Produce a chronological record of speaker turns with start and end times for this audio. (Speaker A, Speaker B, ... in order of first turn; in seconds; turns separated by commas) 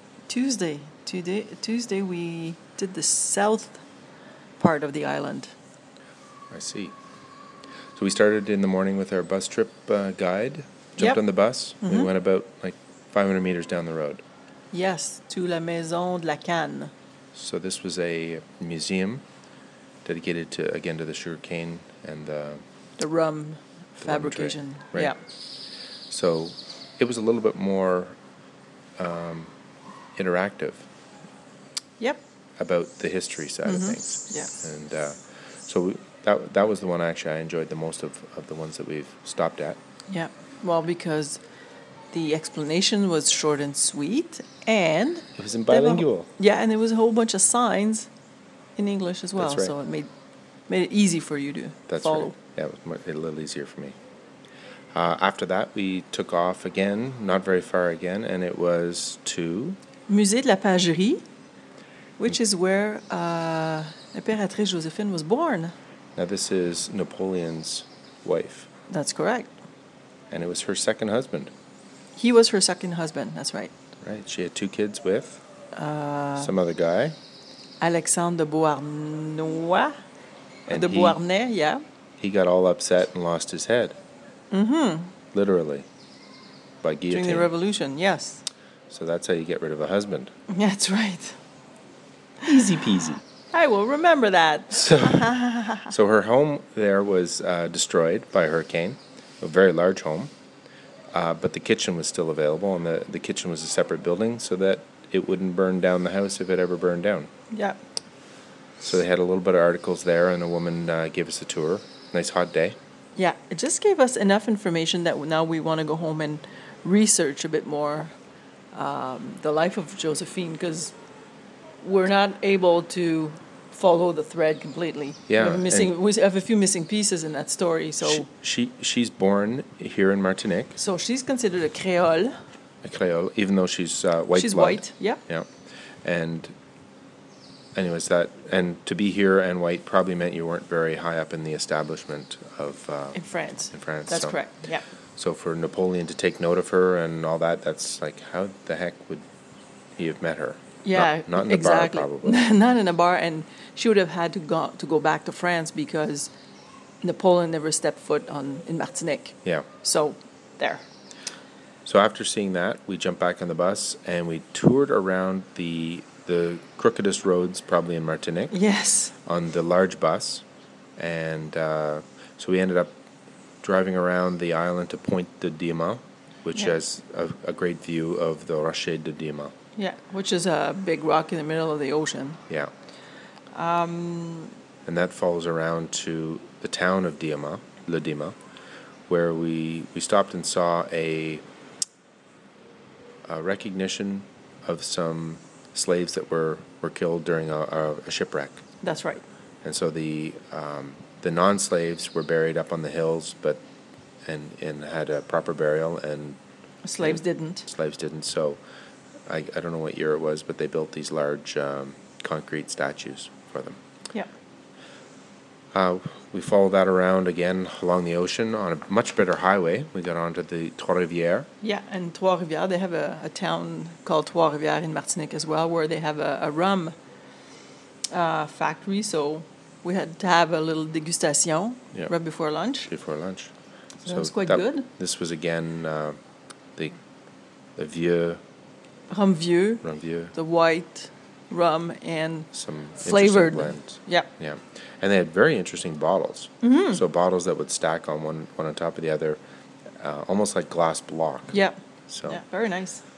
Speaker A: 0.3-3.8, Speaker A: 4.6-5.5, Speaker B: 6.5-7.0, Speaker B: 8.0-14.2, Speaker A: 11.8-12.1, Speaker A: 14.7-16.9, Speaker B: 17.3-19.2, Speaker B: 20.1-22.6, Speaker A: 23.0-25.2, Speaker B: 24.0-25.1, Speaker B: 26.1-28.2, Speaker B: 29.0-29.5, Speaker B: 30.2-30.9, Speaker B: 32.6-39.8, Speaker A: 33.6-34.5, Speaker A: 40.1-41.4, Speaker A: 42.1-48.1, Speaker B: 45.4-46.3, Speaker A: 48.8-50.1, Speaker B: 49.4-49.7, Speaker A: 50.7-52.4, Speaker B: 51.9-54.0, Speaker B: 54.9-59.8, Speaker A: 60.1-61.2, Speaker A: 62.2-65.7, Speaker B: 66.2-68.7, Speaker A: 68.9-69.5, Speaker B: 70.3-71.5, Speaker A: 72.2-73.7, Speaker B: 74.0-75.4, Speaker A: 75.7-76.5, Speaker B: 76.4-77.2, Speaker A: 77.8-80.0, Speaker B: 80.7-81.2, Speaker A: 80.7-81.8, Speaker B: 82.2-84.0, Speaker A: 84.5-85.1, Speaker B: 85.3-85.9, Speaker B: 86.8-87.5, Speaker A: 87.1-88.5, Speaker B: 88.9-90.3, Speaker A: 90.5-91.4, Speaker B: 92.5-93.2, Speaker A: 93.5-95.9, Speaker B: 94.8-95.3, Speaker B: 95.8-100.3, Speaker B: 101.1-107.3, Speaker A: 107.5-107.8, Speaker B: 108.8-112.8, Speaker A: 113.2-118.1, Speaker A: 118.7-121.0, Speaker A: 121.8-128.3, Speaker B: 125.3-125.9, Speaker B: 128.0-130.8, Speaker A: 130.8-132.4, Speaker B: 132.8-135.5, Speaker A: 134.3-135.2, Speaker B: 136.0-136.5, Speaker B: 137.8-143.2, Speaker A: 143.2-144.8, Speaker B: 143.7-144.4, Speaker B: 145.2-149.3, Speaker B: 150.0-152.3, Speaker A: 150.8-156.3, Speaker A: 157.0-160.8, Speaker B: 161.8-168.6, Speaker A: 168.5-169.1, Speaker B: 169.2-170.4, Speaker B: 171.0-172.9, Speaker B: 173.6-179.5, Speaker A: 179.8-182.4, Speaker A: 183.5-184.5, Speaker B: 184.9-188.4, Speaker B: 189.1-191.4, Speaker B: 193.3-198.6, Speaker A: 198.8-199.2, Speaker B: 199.6-203.6, Speaker B: 204.3-206.4, Speaker A: 206.8-207.7, Speaker B: 207.0-208.6, Speaker B: 209.3-213.8, Speaker B: 215.7-221.5, Speaker A: 221.6-226.9, Speaker A: 228.1-232.9, Speaker B: 232.9-236.2, Speaker A: 234.0-234.9, Speaker B: 237.8-238.4, Speaker A: 239.1-242.5, Speaker B: 239.8-240.3, Speaker B: 242.5-249.4, Speaker A: 243.0-244.3, Speaker A: 246.6-247.0, Speaker B: 250.0-252.4, Speaker A: 251.5-253.0